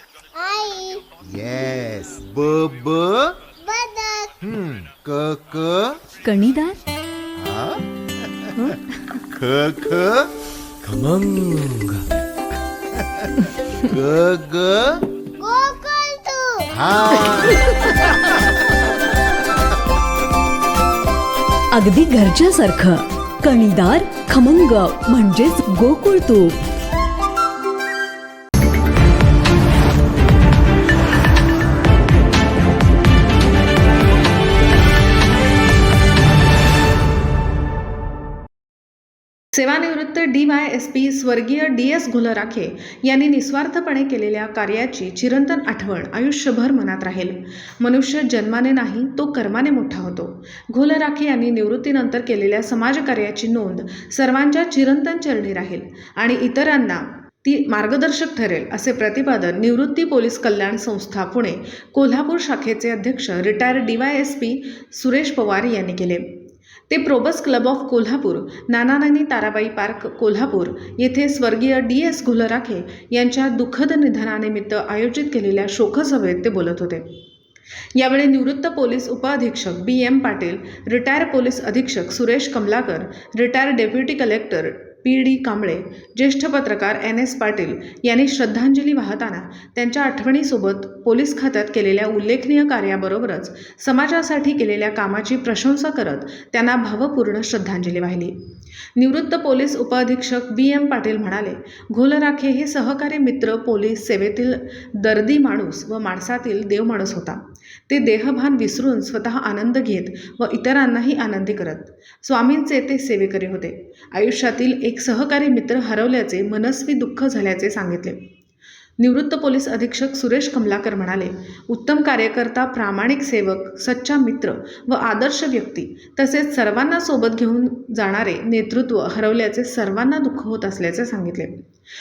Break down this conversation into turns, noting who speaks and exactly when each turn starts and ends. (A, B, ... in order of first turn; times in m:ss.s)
0:00.4-0:01.0 A
0:01.2-0:03.4 B
0:03.6-0:04.3 A
0:04.4-0:06.0 B
0:06.2-0:06.8 C
0:07.4-0:08.7 B
0:09.3-0:10.3 B
0:10.8-0:12.0 B
0:13.8-0:15.0 B
0:15.4-0:16.7 A
0:16.7-0:18.4 B
0:21.7-0:26.6 C
0:39.5-1:06.3 D
1:06.9-1:17.1 D
1:17.9-1:38.4 D
1:39.0-1:58.3 D
1:59.0-2:11.6 D